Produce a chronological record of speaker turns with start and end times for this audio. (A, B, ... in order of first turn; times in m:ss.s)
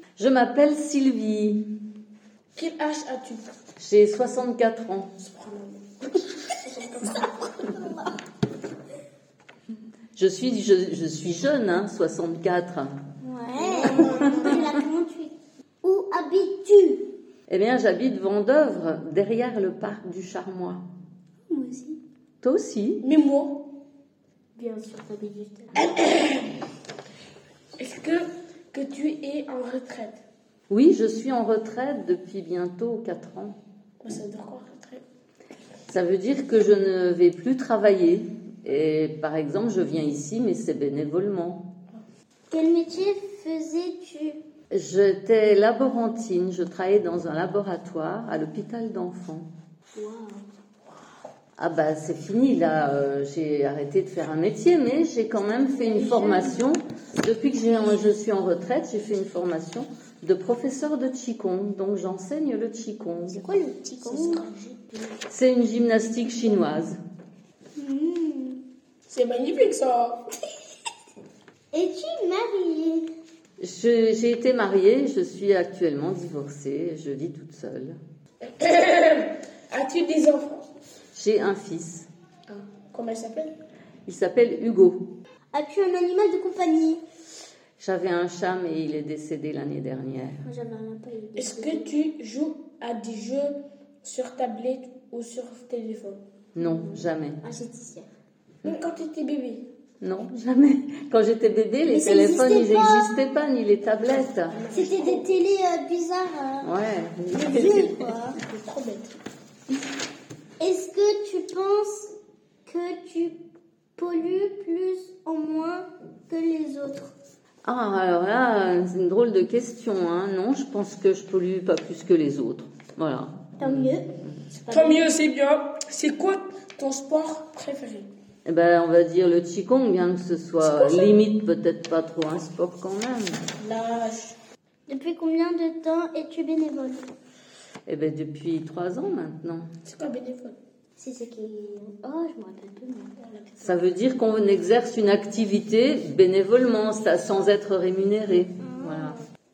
0:00.2-0:01.6 A
0:02.6-0:03.4 B
0:03.8-0:05.1 A
0:05.2-0:07.3 B
0:07.1-0:08.1 C
0:10.2-0:13.0 A
0:13.2-0:17.1 C
0:13.6-0:14.6 B
0:14.1-0:14.7 A
0:17.5-0:20.8 A
0:21.5-0:22.0 C
0:22.4-0:23.0 A
0:23.0-0:23.6 B
0:24.6-0:25.9 C
0:25.8-0:26.6 B
0:27.8-0:30.2 B
0:30.7-0:33.6 A
0:34.0-0:35.0 B
0:35.9-0:41.6 A
0:42.5-0:44.4 C
0:44.7-0:49.5 A
0:50.0-0:50.4 C
0:51.6-1:03.4 A
0:55.7-0:56.6 C
1:03.4-1:04.5 C
1:04.0-1:05.2 B
1:05.3-1:07.0 A
1:07.8-1:08.6 C
1:09.1-1:10.2 B
1:11.7-1:13.1 C
1:13.6-1:18.0 A
1:18.4-1:20.7 B
1:21.1-1:22.1 A
1:22.5-1:23.5 B
1:24.1-1:25.1 A
1:25.5-1:27.0 C
1:27.8-1:30.4 A
1:30.4-1:31.9 C
1:31.4-1:36.2 B
1:36.6-1:37.4 A
1:36.6-1:38.1 C
1:38.6-1:39.6 B
1:40.0-1:44.6 A
1:41.9-1:43.1 C
1:44.2-1:45.3 B
1:44.7-1:46.7 C
1:46.6-1:48.1 A
1:47.3-1:48.4 C
1:48.4-1:49.1 B
1:50.6-1:52.1 C
1:52.7-1:53.4 C
1:54.0-1:57.2 C
1:57.6-2:04.0 A
2:03.6-2:05.1 C
2:04.6-2:08.1 B
2:08.5-2:13.4 A
2:10.6-2:11.1 B
2:13.6-2:14.4 B
2:14.9-2:17.1 C
2:17.9-2:19.7 A
2:19.9-2:20.6 B
2:21.0-2:23.1 C
2:23.2-2:23.9 B
2:23.6-2:29.2 A
2:28.6-2:29.2 C